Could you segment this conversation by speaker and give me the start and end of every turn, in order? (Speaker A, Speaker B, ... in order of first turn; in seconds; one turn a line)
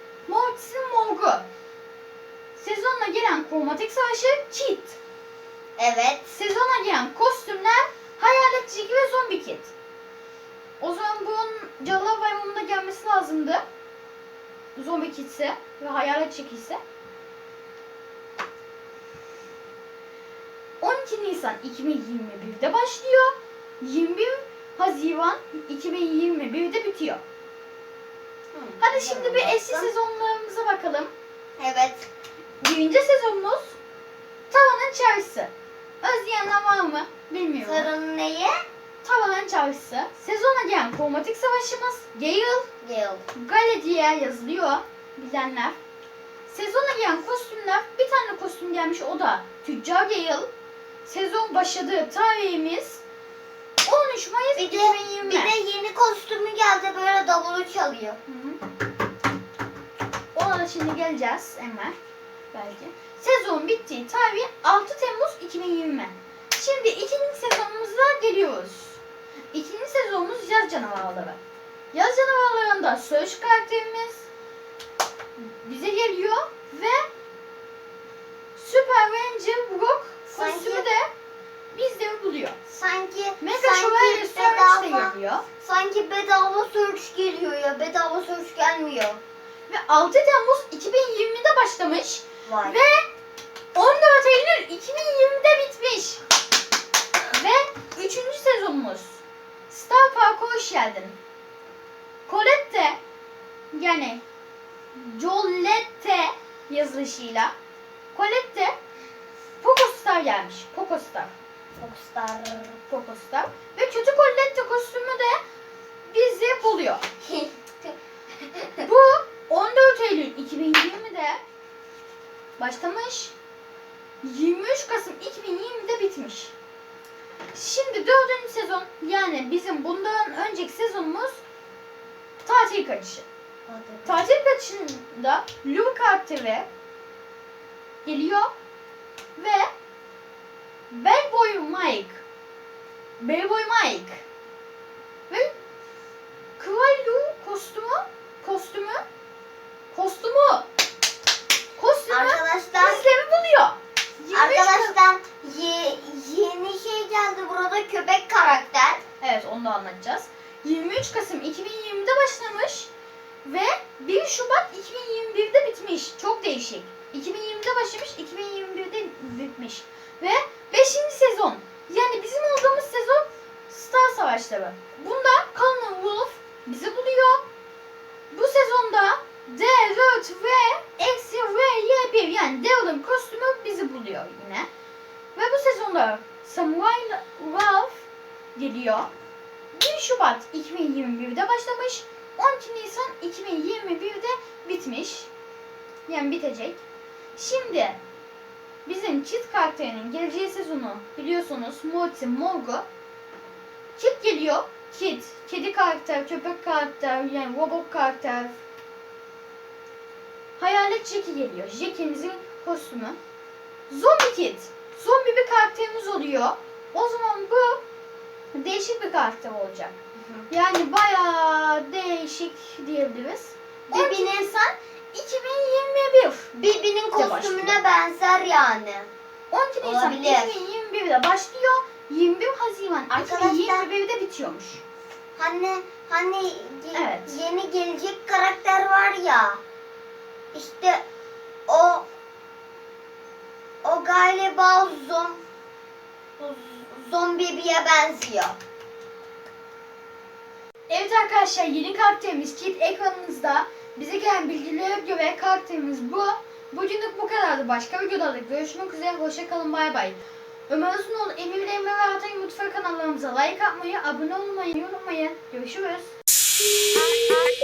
Speaker A: 0.3-1.4
Speaker A: 2.6-5.0
Speaker B: 5.8-6.3
Speaker A: 6.3-9.7
Speaker A: 10.8-13.6
Speaker A: 14.8-16.8
Speaker A: 20.8-27.2
Speaker B: 28.5-29.9
Speaker A: 28.8-31.1
Speaker B: 31.6-32.1
Speaker A: 32.6-33.8
Speaker A: 34.5-37.9
Speaker B: 37.6-38.6
Speaker A: 39.0-42.7
Speaker B: 42.8-43.2
Speaker A: 43.3-45.8
Speaker A: 46.5-50.5
Speaker A: 51.0-53.0
Speaker A: 53.8-55.5
Speaker B: 54.5-58.2
Speaker A: 58.3-58.6
Speaker A: 60.3-61.9
Speaker A: 62.5-69.0
Speaker A: 69.5-71.4
Speaker A: 71.9-74.2
Speaker A: 75.4-77.0
Speaker A: 78.5-81.1
Speaker B: 80.3-80.9
Speaker A: 81.7-82.6
Speaker B: 82.7-89.2
Speaker A: 83.4-85.4
Speaker A: 89.7-93.0
Speaker B: 92.5-92.8
Speaker A: 93.7-96.2
Speaker A: 97.3-101.2
Speaker A: 102.3-103.0
Speaker A: 103.7-104.2
Speaker A: 104.9-107.5
Speaker A: 108.1-108.7
Speaker A: 109.6-111.3
Speaker B: 111.8-112.8
Speaker A: 112.9-115.4
Speaker A: 116.1-117.0
Speaker B: 117.2-117.5
Speaker A: 118.8-121.4
Speaker A: 122.6-123.3
Speaker A: 124.2-126.5
Speaker A: 127.5-131.4
Speaker A: 132.4-133.2
Speaker B: 133.7-134.2
Speaker A: 134.1-136.7
Speaker A: 138.0-138.5
Speaker A: 139.4-139.7
Speaker A: 140.9-142.2
Speaker A: 143.2-144.2
Speaker A: 146.6-149.0
Speaker A: 149.9-150.7
Speaker A: 151.8-154.9
Speaker B: 152.1-153.1
Speaker B: 154.3-159.0
Speaker A: 159.2-162.9
Speaker A: 163.4-177.4
Speaker A: 178.3-184.7
Speaker A: 185.3-189.1
Speaker A: 189.7-195.3
Speaker A: 196.1-196.8
Speaker A: 197.3-198.0
Speaker A: 198.8-202.8
Speaker A: 203.9-208.6
Speaker A: 210.6-213.2
Speaker A: 213.9-217.8
Speaker A: 218.5-219.9
Speaker B: 220.2-220.4
Speaker A: 220.5-226.5
Speaker B: 223.9-224.5
Speaker B: 226.5-229.1
Speaker A: 227.1-227.8
Speaker A: 229.5-234.8
Speaker B: 229.8-230.6
Speaker B: 233.1-233.9
Speaker B: 235.4-239.6
Speaker A: 236.9-237.4
Speaker B: 240.5-241.0
Speaker B: 241.7-242.1
Speaker B: 243.8-245.4
Speaker B: 246.4-248.6
Speaker A: 250.9-260.2
Speaker A: 260.7-266.1